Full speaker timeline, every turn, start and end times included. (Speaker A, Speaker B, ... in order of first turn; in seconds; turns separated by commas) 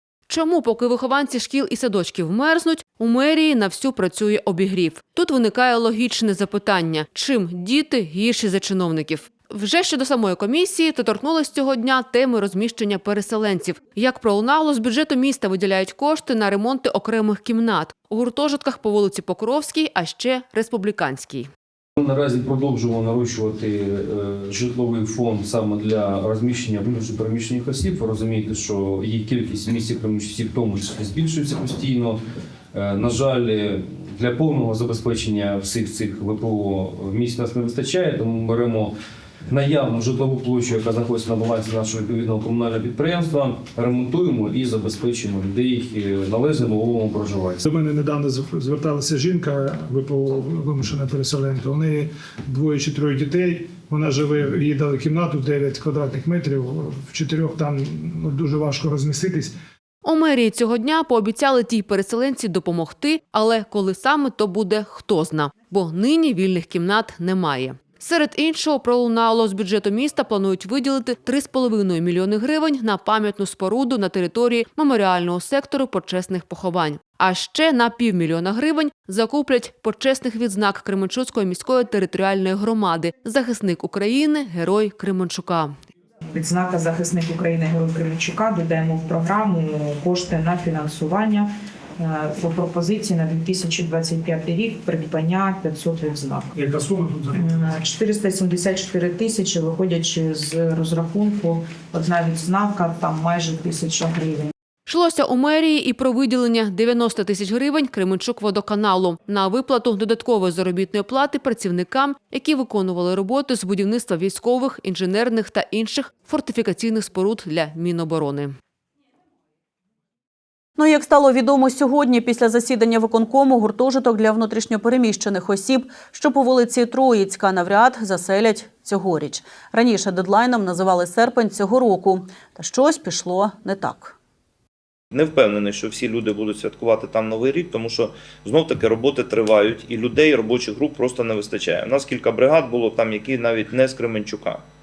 Speaker A: 0.3-21.5, Speaker B: 22.0-32.2, Speaker B: 32.7-38.9, Speaker B: 39.5-47.6, Speaker C: 47.6-59.5, Speaker A: 60.0-85.8, Speaker D: 86.3-96.5, Speaker C: 96.5-97.4, Speaker D: 97.3-104.5, Speaker A: 104.9-118.6, Speaker E: 120.8-134.2, Speaker F: 135.1-144.6